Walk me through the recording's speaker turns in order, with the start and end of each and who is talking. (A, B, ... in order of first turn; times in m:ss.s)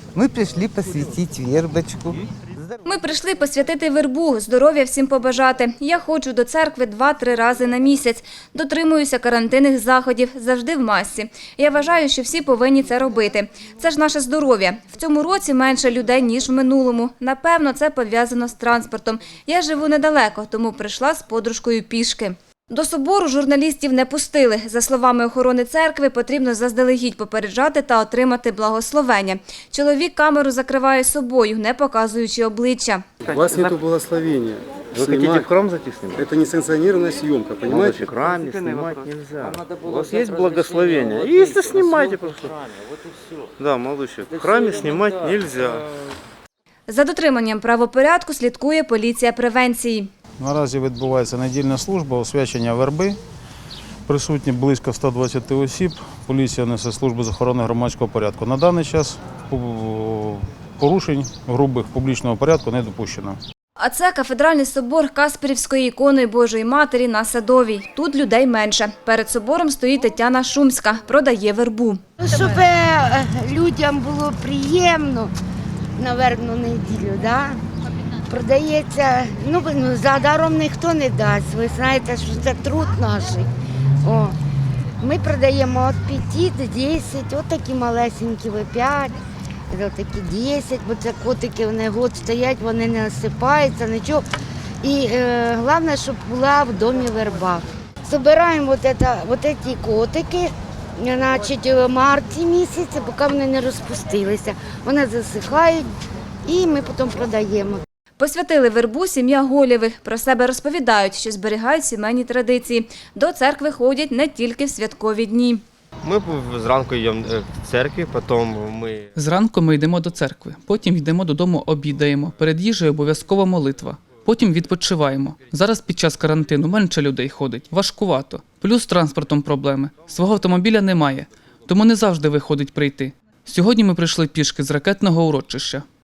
0:00.2-0:02.1 A
0:02.8-0:33.0 B
0:33.3-0:35.5 C
0:34.9-0:36.2 D
0:36.1-0:38.1 C
0:37.7-0:42.5 D
0:43.6-0:45.8 D
0:46.9-0:50.1 B
0:50.4-0:53.2 E
0:54.1-1:03.4 E
1:03.8-1:12.0 B
1:12.2-1:15.3 F
1:16.0-1:17.6 F
1:18.2-1:23.5 F
1:24.0-1:24.3 F
1:25.0-1:29.2 F
1:29.7-1:34.2 F
1:34.8-1:45.9 F
1:46.5-1:47.8 F
1:48.2-1:55.6 B
1:56.0-1:58.9 G
1:59.1-2:15.8 H